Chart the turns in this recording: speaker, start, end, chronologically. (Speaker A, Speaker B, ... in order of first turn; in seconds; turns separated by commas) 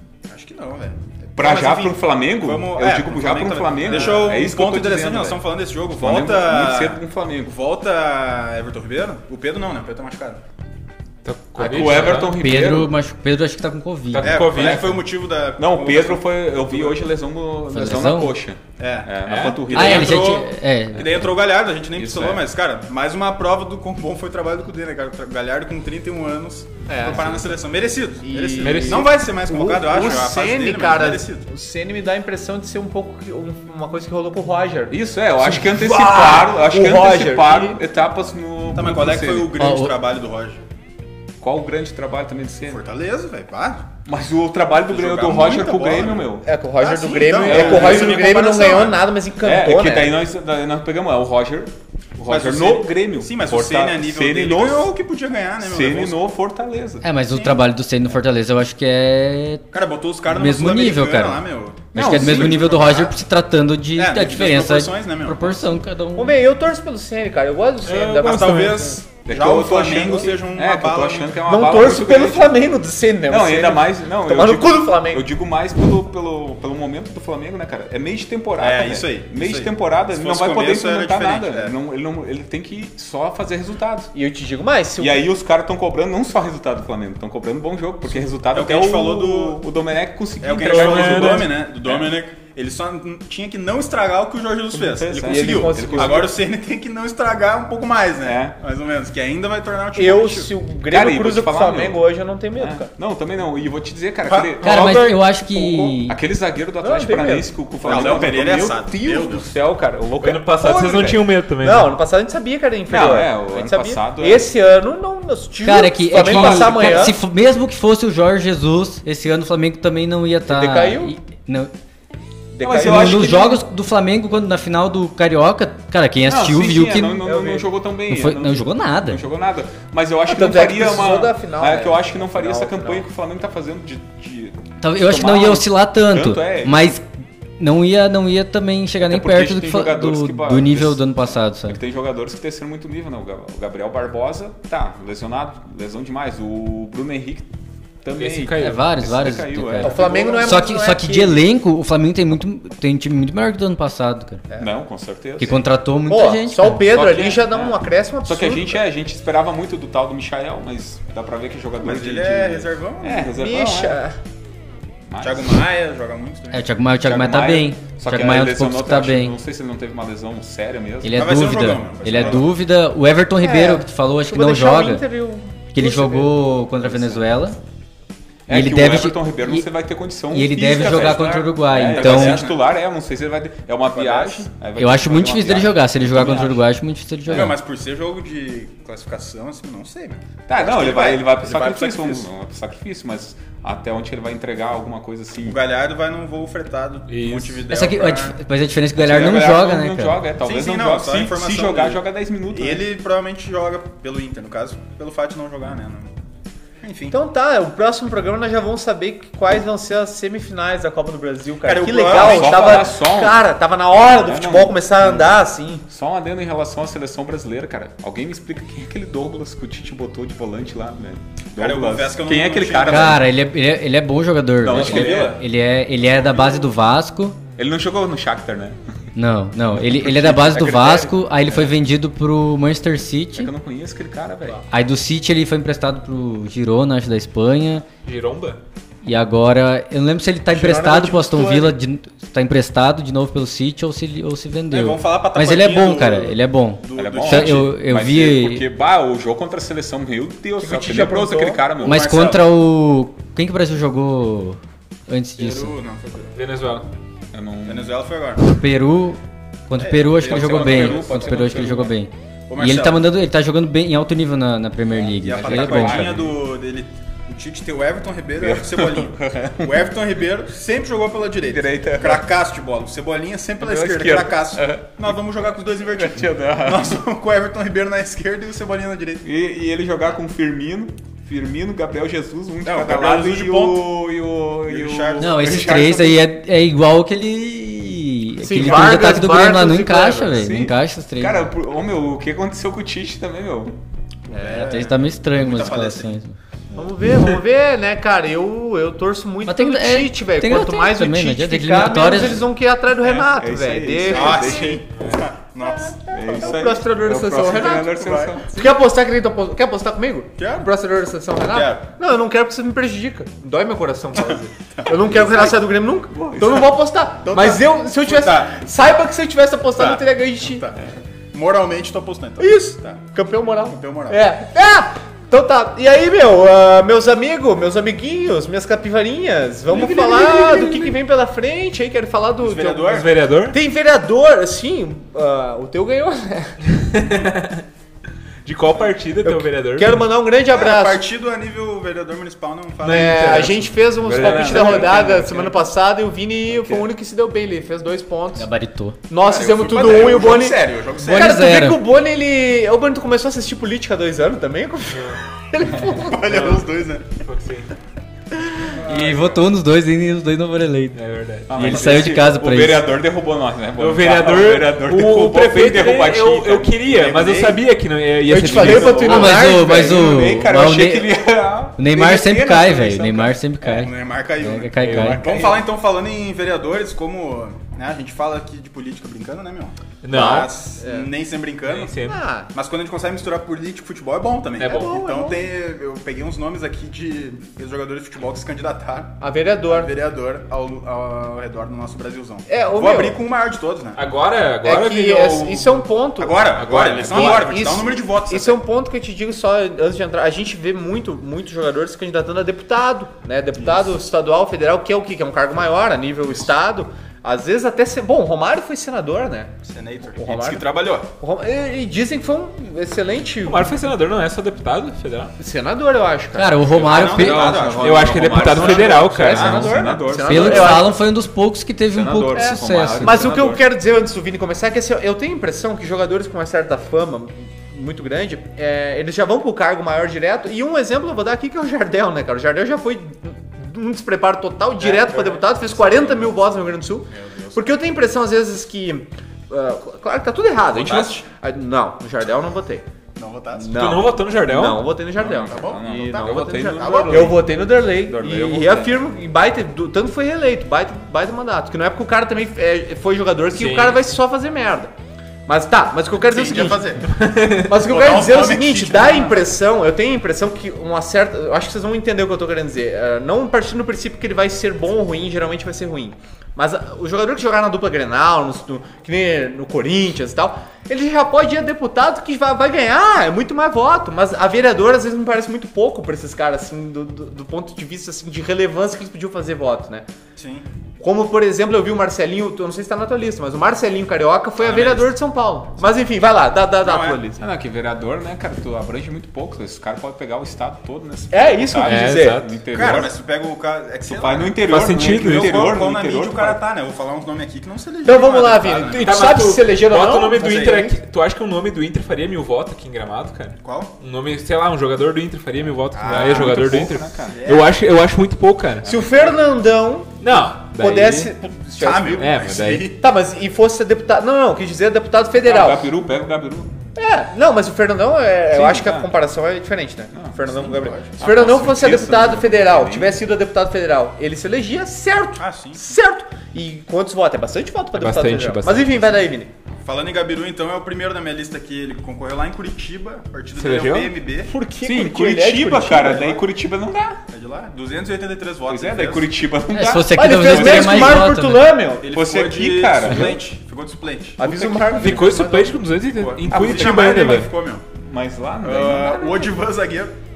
Speaker A: 0.2-10.4, Speaker B: 1.4-7.5, Speaker C: 11.2-12.3, Speaker B: 11.6-12.9, Speaker D: 11.6-14.3, Speaker B: 14.1-15.0, Speaker A: 14.2-17.0, Speaker C: 14.2-15.0, Speaker B: 15.6-20.4, Speaker D: 17.7-18.4, Speaker A: 18.8-31.4, Speaker C: 19.2-19.8, Speaker D: 19.7-21.3, Speaker B: 21.9-22.4, Speaker E: 26.9-27.3, Speaker E: 28.2-37.8, Speaker C: 28.6-29.1, Speaker B: 34.9-39.5, Speaker A: 38.7-40.6, Speaker D: 39.6-40.0, Speaker B: 41.4-42.8, Speaker A: 42.7-43.9, Speaker B: 44.0-46.4, Speaker A: 44.9-49.0, Speaker E: 46.4-50.2, Speaker B: 47.4-48.2, Speaker B: 49.4-54.9, Speaker A: 52.2-56.2, Speaker B: 55.6-57.0, Speaker D: 57.0-59.6, Speaker A: 57.3-57.6, Speaker A: 59.7-63.1, Speaker D: 60.2-61.4, Speaker B: 61.9-62.8, Speaker D: 61.9-66.3, Speaker A: 63.9-65.7, Speaker E: 66.1-69.0, Speaker C: 67.8-68.8, Speaker A: 68.2-71.4, Speaker B: 69.2-72.6, Speaker E: 71.5-75.3, Speaker B: 73.3-84.1, Speaker A: 78.6-81.7, Speaker E: 84.1-85.2, Speaker B: 85.0-92.1, Speaker A: 88.5-89.6, Speaker A: 90.4-100.5, Speaker C: 90.6-91.5, Speaker B: 94.7-96.3, Speaker E: 95.2-96.3, Speaker B: 98.2-98.6, Speaker E: 99.9-102.9, Speaker B: 100.9-102.0, Speaker B: 102.5-111.2, Speaker A: 104.3-104.9, Speaker D: 104.6-106.2, Speaker E: 106.8-108.3, Speaker A: 107.8-109.5, Speaker C: 110.2-111.9, Speaker E: 111.6-117.2, Speaker B: 112.9-114.5, Speaker D: 115.6-121.7, Speaker B: 116.1-117.2, Speaker E: 120.5-121.1, Speaker E: 122.5-123.6, Speaker B: 122.6-123.6, Speaker D: 122.8-127.2, Speaker B: 126.2-136.9, Speaker E: 127.2-127.7, Speaker D: 128.1-129.2, Speaker E: 130.3-133.1, Speaker D: 134.8-137.0, Speaker D: 137.6-141.8, Speaker B: 139.0-147.5, Speaker B: 148.0-150.2, Speaker C: 148.2-148.8, Speaker D: 148.6-154.4, Speaker E: 149.8-151.4, Speaker A: 149.9-150.5, Speaker B: 154.6-155.6, Speaker D: 155.4-156.8, Speaker E: 156.1-158.8, Speaker B: 156.9-164.0, Speaker A: 161.8-163.3, Speaker E: 163.2-164.2, Speaker B: 165.1-165.6, Speaker A: 165.2-166.7, Speaker D: 166.5-169.3, Speaker B: 167.0-171.4, Speaker D: 171.0-175.0, Speaker A: 171.1-172.5, Speaker E: 173.4-176.4, Speaker D: 175.7-177.6, Speaker B: 176.8-177.2, Speaker B: 178.5-186.6, Speaker D: 178.5-179.7, Speaker D: 180.3-182.4, Speaker A: 180.7-182.7, Speaker A: 183.9-184.5, Speaker D: 184.8-187.6, Speaker A: 186.2-186.5, Speaker A: 187.3-192.3, Speaker B: 190.5-195.6, Speaker A: 195.4-198.4, Speaker C: 197.1-197.7, Speaker D: 197.7-200.2, Speaker B: 198.9-202.9, Speaker A: 200.4-206.1, Speaker A: 206.8-207.2, Speaker E: 207.1-215.8, Speaker A: 211.6-212.8, Speaker B: 212.1-215.3, Speaker B: 215.9-223.2, Speaker A: 221.6-223.2, Speaker D: 222.8-227.3, Speaker B: 224.6-225.4, Speaker A: 224.7-225.4, Speaker A: 226.2-226.7, Speaker B: 227.6-228.9, Speaker D: 229.1-233.5, Speaker B: 229.7-231.8, Speaker B: 233.3-234.6, Speaker D: 234.7-237.8, Speaker C: 238.0-238.6, Speaker D: 239.0-248.7, Speaker E: 240.5-241.8, Speaker A: 244.7-247.7, Speaker B: 246.9-252.3, Speaker E: 250.6-251.6, Speaker D: 251.8-255.8, Speaker A: 251.8-252.4, Speaker A: 255.4-256.3, Speaker C: 256.3-256.9, Speaker B: 257.3-257.9, Speaker A: 257.6-258.4, Speaker D: 258.4-266.2, Speaker A: 259.7-261.9, Speaker B: 260.2-261.9, Speaker A: 262.5-263.1, Speaker B: 264.9-266.4, Speaker A: 265.2-279.2, Speaker B: 268.4-270.0, Speaker B: 271.4-272.3, Speaker B: 273.6-277.0, Speaker B: 279.2-286.2, Speaker A: 282.6-283.9, Speaker A: 284.6-285.3, Speaker D: 285.2-291.5, Speaker E: 288.4-290.5, Speaker B: 290.3-293.8, Speaker A: 294.3-296.2, Speaker E: 294.3-294.8, Speaker D: 294.5-296.3, Speaker E: 296.7-304.7, Speaker D: 299.4-302.4, Speaker B: 303.1-304.8, Speaker A: 304.1-306.6, Speaker B: 306.1-308.6, Speaker E: 306.3-320.6, Speaker A: 307.5-308.4, Speaker A: 310.4-310.7, Speaker A: 311.4-311.9, Speaker A: 314.1-315.4, Speaker B: 316.1-316.7, Speaker A: 317.2-318.6, Speaker A: 319.8-323.0, Speaker E: 322.4-336.5, Speaker A: 323.6-324.2, Speaker A: 329.7-330.9, Speaker A: 332.4-333.1, Speaker C: 332.9-333.6, Speaker C: 336.8-337.6, Speaker C: 338.4-340.0, Speaker E: 339.2-341.0, Speaker A: 340.5-343.5, Speaker C: 342.8-345.5, Speaker E: 342.8-348.5, Speaker B: 344.0-345.2, Speaker A: 344.3-345.0, Speaker B: 346.5-346.8, Speaker D: 348.4-349.0, Speaker E: 349.1-356.5, Speaker B: 349.3-350.5, Speaker A: 349.3-351.5, Speaker D: 351.0-351.8, Speaker A: 355.9-357.1, Speaker C: 356.3-356.6, Speaker C: 357.2-357.7, Speaker D: 358.9-361.0, Speaker C: 360.9-362.1, Speaker B: 361.5-367.6, Speaker D: 361.5-362.9, Speaker C: 363.8-369.4, Speaker A: 367.3-367.6, Speaker E: 368.3-370.3, Speaker B: 368.3-373.3, Speaker A: 368.7-369.1, Speaker D: 369.1-375.4, Speaker A: 371.9-381.9, Speaker C: 374.8-375.7, Speaker C: 380.0-380.5, Speaker E: 380.1-381.1, Speaker C: 381.7-382.2, Speaker E: 382.1-382.5, Speaker A: 382.5-394.0, Speaker C: 384.6-384.9, Speaker E: 384.6-385.4, Speaker E: 389.2-389.9, Speaker E: 392.5-393.2, Speaker C: 393.9-395.8, Speaker E: 394.6-409.5, Speaker A: 396.2-398.6, Speaker C: 396.5-397.6, Speaker A: 409.6-411.1, Speaker E: 410.1-413.7, Speaker C: 413.4-415.3, Speaker E: 415.4-416.6, Speaker D: 416.3-417.8, Speaker B: 416.7-420.9, Speaker A: 416.7-419.7, Speaker C: 417.8-419.9, Speaker E: 418.3-421.0, Speaker D: 420.2-423.2, Speaker B: 421.9-423.6, Speaker E: 422.4-442.9, Speaker C: 434.8-436.3, Speaker A: 437.1-437.6, Speaker A: 440.7-441.2, Speaker A: 443.1-443.9, Speaker E: 443.5-454.9, Speaker C: 443.7-444.9, Speaker B: 445.2-449.0, Speaker A: 445.2-447.4, Speaker C: 453.5-454.1, Speaker E: 455.5-456.9, Speaker A: 456.2-457.1, Speaker C: 457.0-457.7, Speaker E: 457.6-480.1, Speaker A: 457.8-459.4, Speaker A: 480.4-480.6, Speaker E: 481.0-487.4, Speaker A: 484.6-485.0, Speaker A: 486.8-487.2, Speaker B: 487.4-493.1, Speaker E: 491.3-492.5, Speaker C: 491.8-492.6, Speaker A: 492.7-499.3, Speaker B: 494.1-496.6, Speaker C: 494.6-495.8, Speaker E: 498.0-500.9, Speaker C: 498.8-508.9, Speaker A: 500.4-500.8, Speaker A: 503.6-503.9, Speaker A: 505.9-507.8, Speaker B: 506.0-507.4, Speaker B: 508.8-509.2, Speaker E: 508.8-512.5, Speaker C: 510.2-511.3, Speaker A: 511.8-513.0, Speaker C: 512.2-512.9, Speaker E: 513.0-515.9, Speaker B: 515.4-516.7, Speaker E: 517.0-529.5, Speaker B: 518.5-519.1, Speaker A: 520.5-521.1, Speaker B: 521.2-523.1, Speaker A: 525.4-525.8, Speaker C: 527.9-529.1, Speaker A: 529.8-534.5, Speaker C: 533.6-534.1, Speaker E: 534.5-536.4, Speaker B: 534.8-537.2, Speaker A: 537.3-539.3, Speaker B: 538.7-541.2, Speaker D: 539.7-541.6, Speaker E: 540.1-542.1, Speaker A: 542.0-544.5, Speaker B: 542.1-543.4, Speaker E: 544.4-545.9, Speaker B: 544.4-545.1, Speaker C: 544.9-547.5, Speaker A: 546.1-547.8, Speaker B: 546.5-547.3, Speaker B: 547.9-549.3, Speaker A: 548.6-550.1